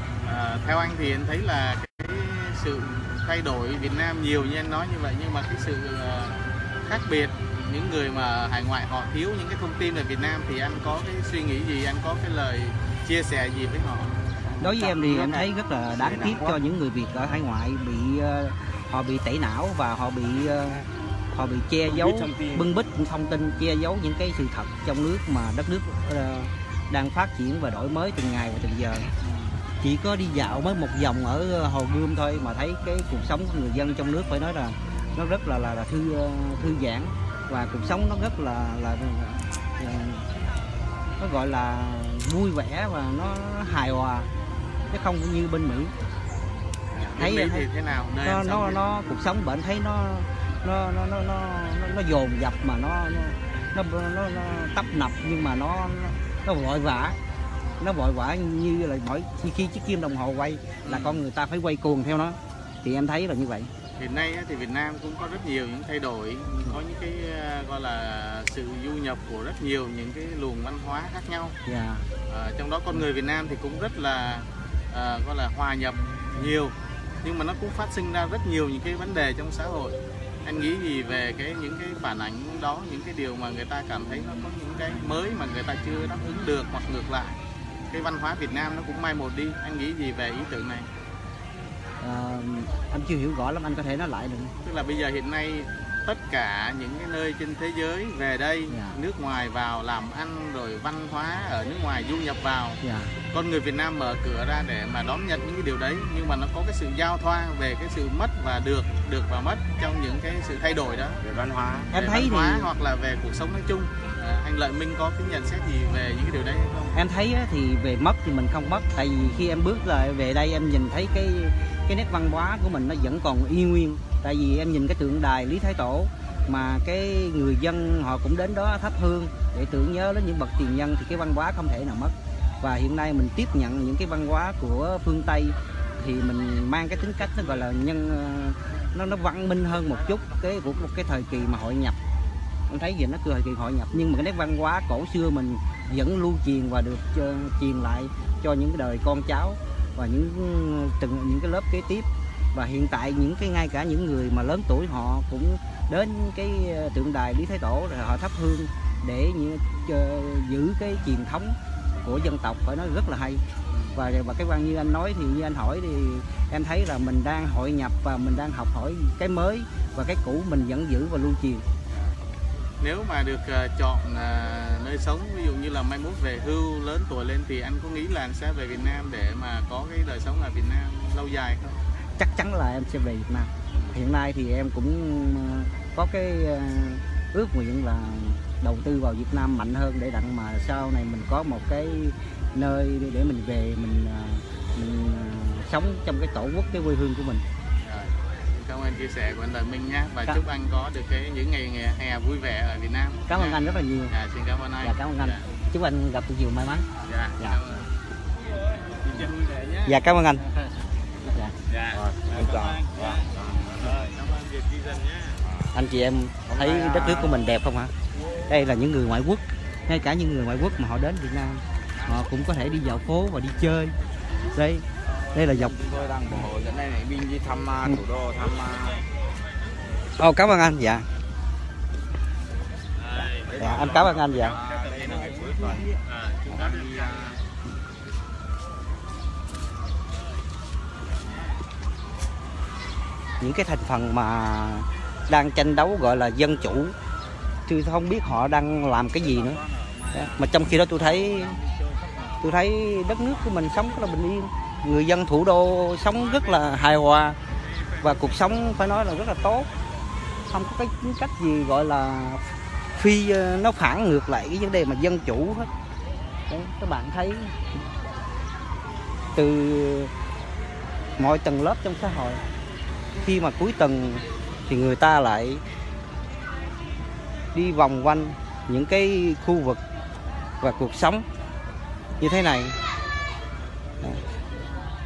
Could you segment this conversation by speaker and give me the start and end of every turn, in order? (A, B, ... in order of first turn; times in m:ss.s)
0:00.2-0:15.5 A
0:14.6-0:29.1 B
0:22.0-0:22.6 C
0:29.8-0:40.3 B
0:41.2-0:44.3 B
0:44.9-0:45.9 B
0:46.9-0:48.8 A
0:47.2-0:47.7 B
0:48.2-0:57.2 B
0:57.8-1:03.7 B
1:00.8-1:01.2 A
1:04.0-1:11.6 A
1:11.7-1:12.1 B
1:12.3-1:27.4 A
1:27.9-1:30.9 A
1:32.0-1:34.5 B
1:34.6-1:51.2 A
1:38.7-1:39.0 B
1:42.8-1:43.1 B
1:51.2-1:51.9 C
1:51.9-1:52.7 B
1:51.9-1:57.0 A
1:57.0-2:22.0 B
2:22.7-2:43.4 B
2:43.7-2:44.0 A
2:44.0-2:51.6 B
2:51.9-2:52.2 A
2:52.8-3:01.8 A
3:02.2-3:17.4 B
3:17.8-3:25.4 A
3:23.3-3:24.1 B
3:24.8-3:26.9 B
3:27.0-3:27.9 A
3:29.0-3:30.0 A
3:29.9-3:30.5 B
3:31.3-3:31.6 B
3:31.7-3:35.4 A
3:31.9-3:33.9 C
3:35.7-3:37.9 B
3:36.5-3:37.3 C
3:38.5-3:44.0 B
3:44.5-3:45.8 B
3:45.6-3:49.0 C
3:50.2-3:51.1 B
3:53.0-3:57.3 A
3:53.4-3:55.9 C
3:53.6-3:54.6 B
3:56.5-3:57.4 C
4:03.4-4:07.0 B
4:07.7-4:11.6 B
4:12.4-4:17.4 B
4:18.0-4:19.7 B
4:20.5-4:22.4 B
4:23.0-4:25.7 B
4:26.5-4:27.6 B
4:29.4-4:30.1 B
4:31.2-4:32.4 B
4:33.2-4:35.6 B
4:37.5-4:39.8 B
4:40.6-4:41.2 B
4:42.2-4:42.8 B